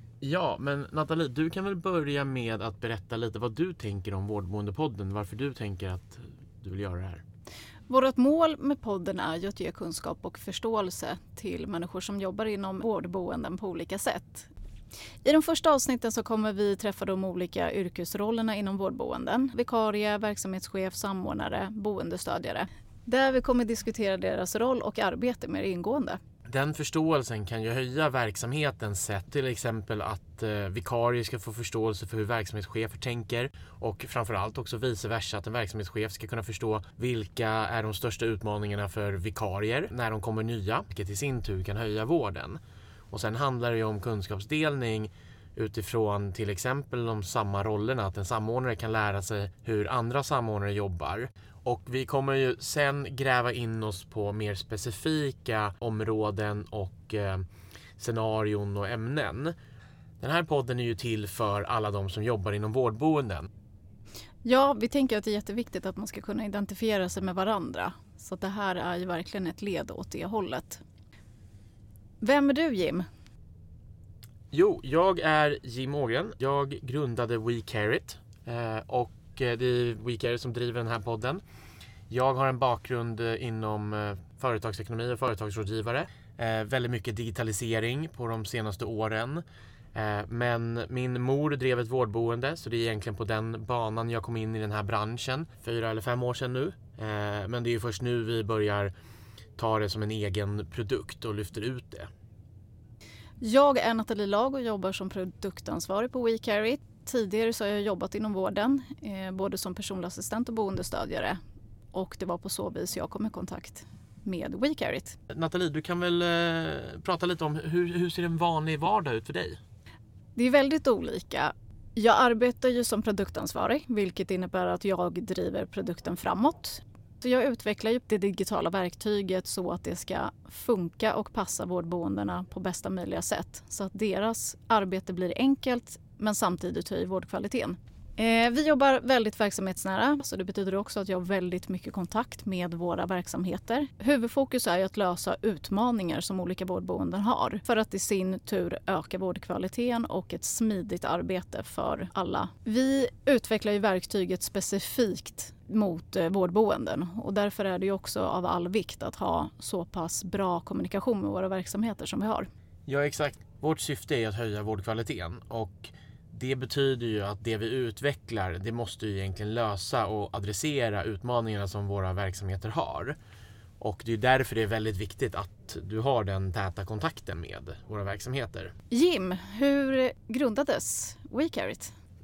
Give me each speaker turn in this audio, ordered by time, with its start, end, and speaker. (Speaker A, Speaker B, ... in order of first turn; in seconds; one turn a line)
Speaker A: 0.2-7.2
Speaker B: 7.9-14.5
Speaker B: 15.2-26.2
Speaker A: 26.5-42.6
Speaker A: 43.1-57.5
Speaker A: 58.0-59.5
Speaker A: 60.2-63.5
Speaker B: 64.4-70.8
Speaker B: 72.2-73.1
Speaker A: 74.5-81.4
Speaker A: 82.1-98.9
Speaker A: 99.6-102.1
Speaker B: 103.4-111.4
Speaker B: 111.9-115.2
Speaker A: 115.3-119.6
Speaker B: 120.3-162.5
Speaker A: 162.9-173.2
Speaker A: 173.8-178.7
Speaker B: 178.9-181.9